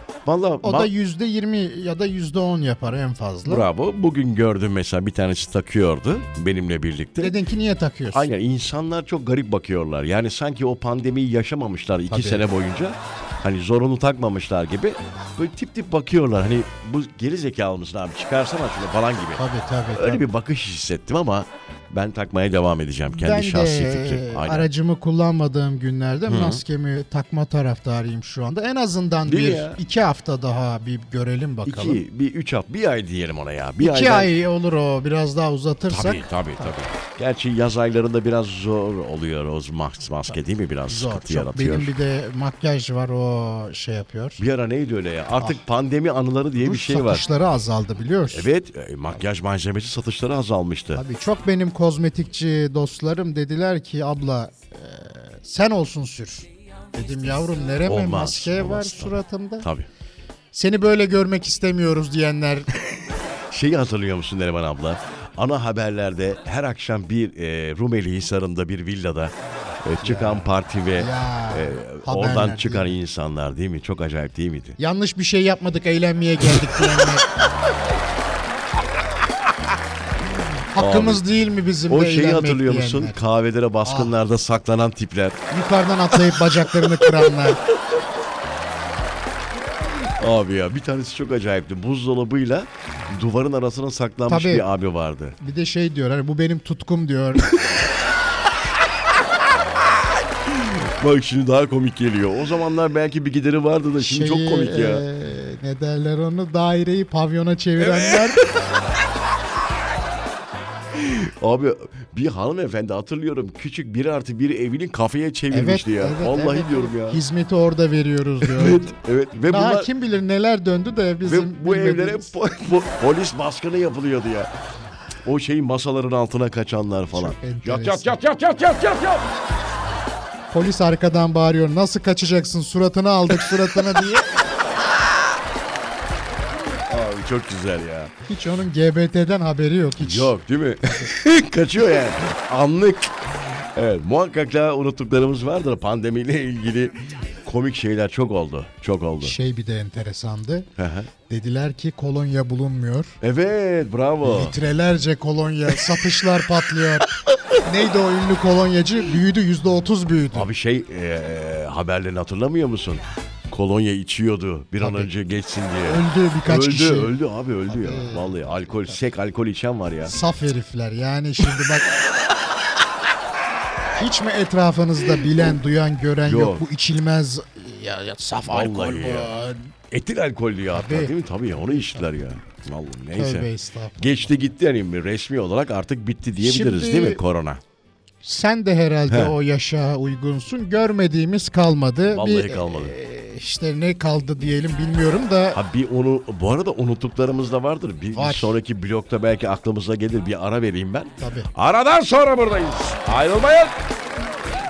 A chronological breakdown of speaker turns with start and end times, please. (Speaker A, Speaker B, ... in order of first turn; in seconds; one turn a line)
Speaker A: 0.2-0.9
Speaker B: 0.6-3.7
Speaker A: 3.4-7.3
Speaker B: 7.2-8.3
Speaker A: 8.1-19.4
Speaker B: 12.1-12.5
Speaker B: 19.4-20.2
Speaker A: 19.9-24.7
Speaker B: 23.1-32.0
Speaker A: 26.3-26.6
Speaker A: 29.2-29.8
Speaker A: 31.6-34.3
Speaker B: 33.8-36.6
Speaker A: 35.9-41.9
Speaker B: 40.9-44.4
Speaker A: 44.4-47.3
Speaker B: 46.6-48.5
Speaker A: 48.3-51.0
Speaker B: 50.9-59.7
Speaker A: 57.8-59.9
Speaker B: 60.5-62.7
Speaker A: 63.5-74.8
Speaker B: 70.0-73.0
Speaker B: 74.8-77.2
Speaker A: 80.4-81.2
Speaker B: 80.7-83.2
Speaker A: 81.9-85.4
Speaker B: 83.8-84.2
Speaker B: 85.5-87.6
Speaker A: 86.1-88.0
Speaker A: 89.9-95.4
Speaker B: 94.3-94.6
Speaker B: 95.4-97.6
Speaker A: 99.1-105.0
Speaker B: 104.0-108.6
Speaker A: 107.8-108.3
Speaker A: 110.9-117.2
Speaker B: 115.5-118.9
Speaker A: 118.4-119.9
Speaker B: 119.5-122.3
Speaker A: 121.2-124.5
Speaker A: 125.2-129.3
Speaker B: 127.1-128.2
Speaker B: 130.5-134.3
Speaker A: 136.9-138.1
Speaker B: 138.3-140.3
Speaker A: 140.0-149.4
Speaker B: 149.2-150.7
Speaker A: 150.8-151.1
Speaker B: 151.3-153.2
Speaker A: 153.2-154.5
Speaker B: 154.2-157.1
Speaker B: 157.6-160.5
Speaker A: 160.3-170.1
Speaker B: 164.8-165.1
Speaker B: 165.8-167.1
Speaker B: 167.7-169.0
Speaker B: 170.1-171.9
Speaker B: 173.9-179.7
Speaker A: 176.2-176.6
Speaker A: 178.5-179.3
Speaker A: 179.9-187.6
Speaker B: 180.7-181.1
Speaker B: 183.2-184.3
Speaker B: 186.4-187.2
Speaker B: 188.2-195.6
Speaker A: 189.1-189.3
Speaker A: 192.1-192.9
Speaker A: 195.5-203.8
Speaker B: 198.1-198.5
Speaker B: 201.2-201.5